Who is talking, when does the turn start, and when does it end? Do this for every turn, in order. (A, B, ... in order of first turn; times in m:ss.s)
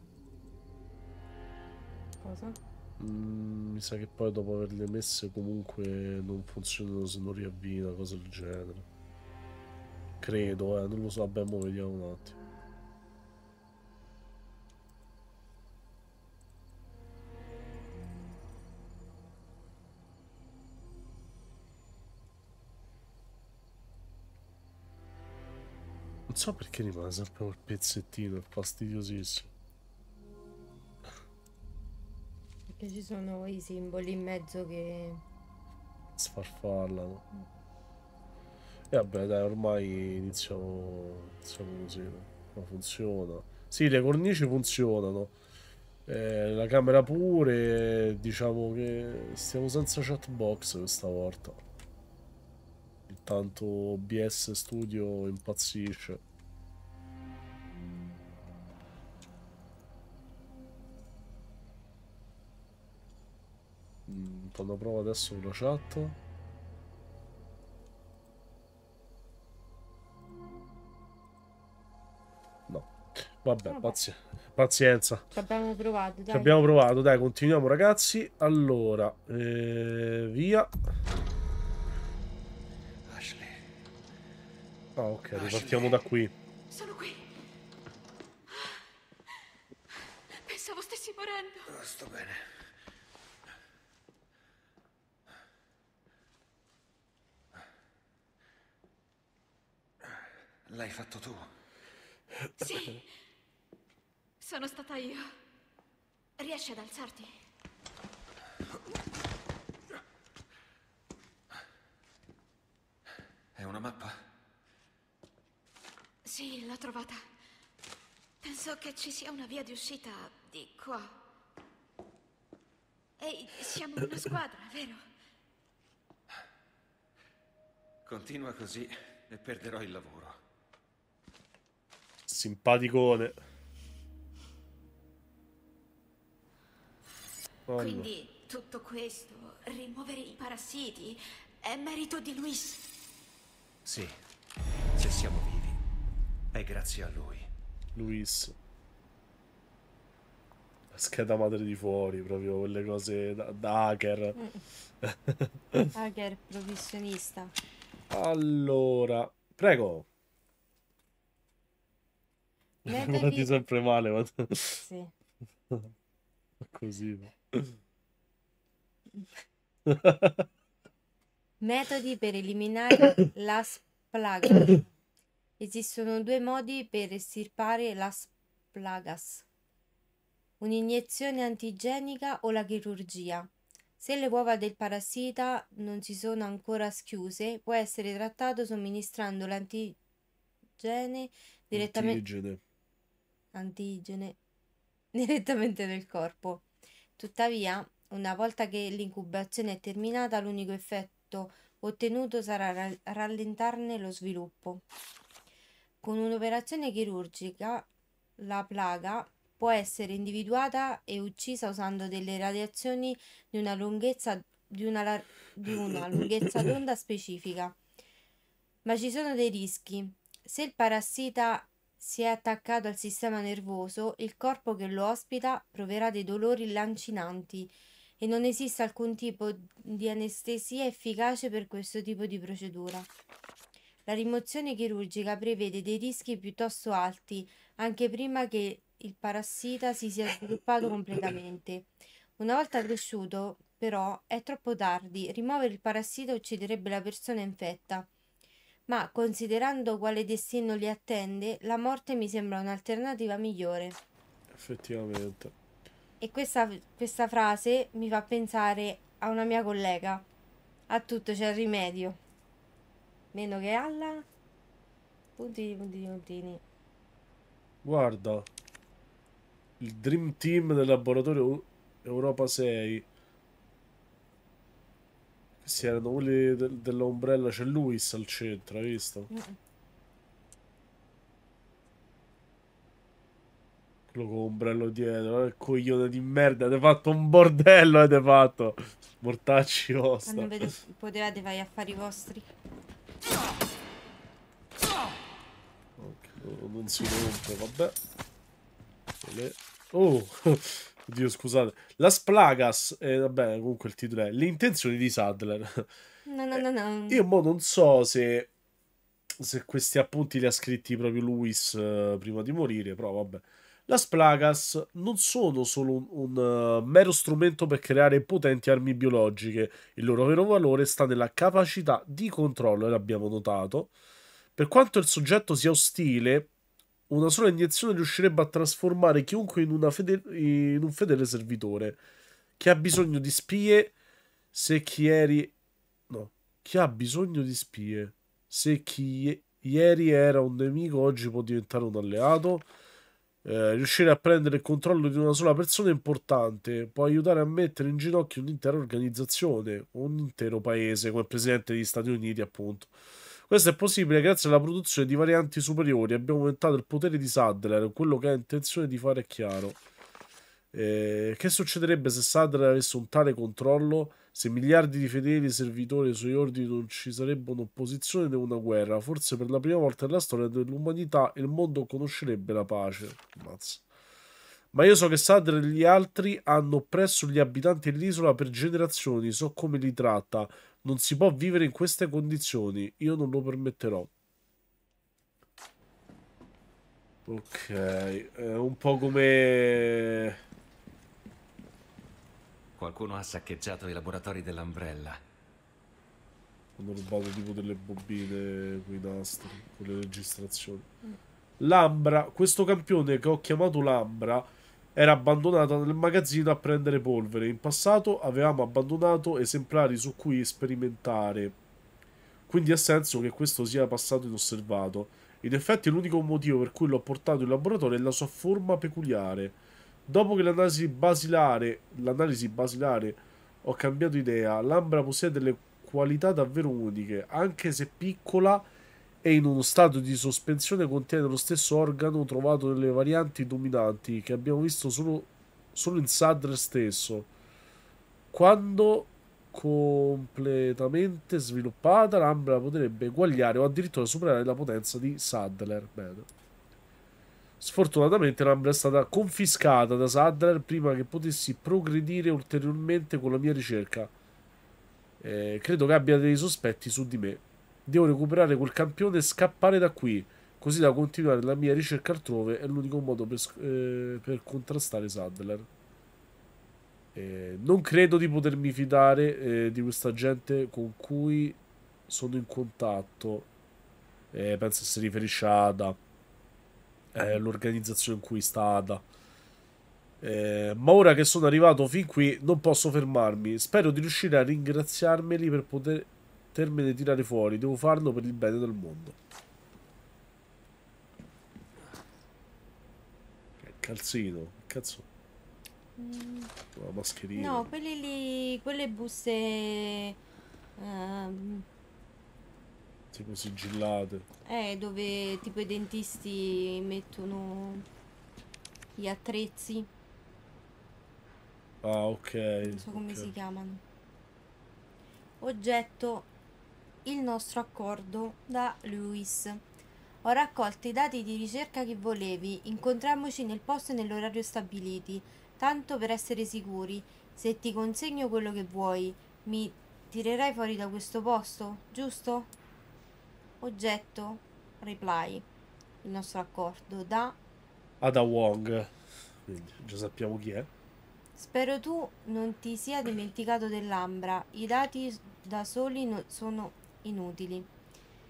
0:02.2-0:02.6 A
0:03.0-0:08.9 B
0:10.2-0:12.4 B
0:26.3-0:29.5 B
0:32.7-0:35.2 A
0:36.2-0:37.2 B
0:38.9-0:45.3 B
0:46.1-0:51.6 B
0:53.1-0:56.2 B
1:04.1-1:06.2 B
1:12.7-1:15.3 B
1:13.6-1:14.0 A
1:15.3-1:16.6 A
1:16.3-1:20.8 B
1:23.1-1:23.6 C
1:25.0-1:26.3 B
1:25.3-1:26.0 C
1:26.7-1:27.2 D
1:30.5-1:31.7 D
1:31.7-1:32.4 C
1:40.7-1:41.5 C
1:42.6-1:43.0 D
1:44.4-1:45.3 D
1:46.4-1:47.3 D
1:53.6-1:54.2 C
1:56.2-1:57.2 D
1:58.4-2:01.1 D
2:03.2-2:05.0 D
2:08.1-2:10.4 C
2:12.3-2:13.4 B
2:17.7-2:18.1 B
2:17.8-2:22.9 D
2:23.8-2:24.1 C
2:25.0-2:25.8 C
2:26.5-2:27.5 C
2:28.0-2:28.6 B
2:30.9-2:34.4 B
2:34.4-2:34.6 A
2:35.0-2:35.9 B
2:36.0-2:37.5 A
2:38.1-2:40.1 B
2:42.9-2:43.5 A
2:42.9-2:44.8 B
2:44.8-2:45.1 A
2:46.6-2:47.8 B
2:49.9-2:50.5 B
2:51.6-2:54.9 A
2:55.6-2:59.5 A
3:00.6-3:10.0 A
3:10.8-3:12.2 A
3:11.7-3:12.6 B
3:13.5-3:14.4 A
3:15.1-3:16.7 A
3:17.2-3:24.8 A
3:26.0-3:27.9 A
3:28.4-3:37.8 A
3:38.8-3:53.1 A
3:54.1-4:08.1 A
4:08.9-4:14.0 A
4:14.5-4:15.5 B
4:16.2-4:20.3 A
4:20.9-4:22.2 A
4:23.3-4:24.3 A
4:25.4-4:26.6 A
4:27.8-4:28.5 B
4:29.8-4:33.1 B
4:35.6-4:39.3 B
4:39.3-4:39.6 A
4:44.1-4:50.7 B
4:50.3-4:52.5 A
4:56.0-4:58.0 B
4:59.2-5:05.9 B
5:06.3-5:07.2 A
5:06.5-5:08.5 B
5:09.4-5:23.9 B
5:24.6-5:26.5 B
5:27.1-5:32.0 B
5:32.6-5:33.9 B
5:34.5-5:35.6 B
5:36.1-5:42.7 B
5:43.4-5:53.0 B
5:53.5-5:59.8 B
6:00.7-6:13.8 B
6:14.7-6:24.1 B
6:27.3-6:30.4 B
6:32.8-6:35.2 C
6:36.8-6:40.9 B
6:41.6-6:51.6 B
6:52.5-7:08.7 B
7:09.2-7:17.3 B
7:18.3-7:26.3 B
7:27.6-7:34.1 B
7:35.2-7:45.7 B
7:47.1-7:53.5 B
7:54.3-7:56.0 B
7:57.1-7:59.0 B
8:00.2-8:09.2 B
8:13.6-8:15.1 B
8:16.0-8:16.5 A
8:16.8-8:17.6 B
8:17.4-8:20.2 A
8:20.8-8:21.7 A
8:23.1-8:24.3 B
8:24.5-8:27.9 A
8:29.0-8:29.9 A
8:31.8-8:33.3 B
8:32.6-8:33.8 A
8:35.4-8:36.3 A
8:37.0-8:39.6 A
8:40.2-8:52.5 A
8:53.6-8:55.5 A
8:56.0-8:57.4 A
8:58.0-8:58.9 B
8:59.5-9:00.7 B
9:01.4-9:07.7 A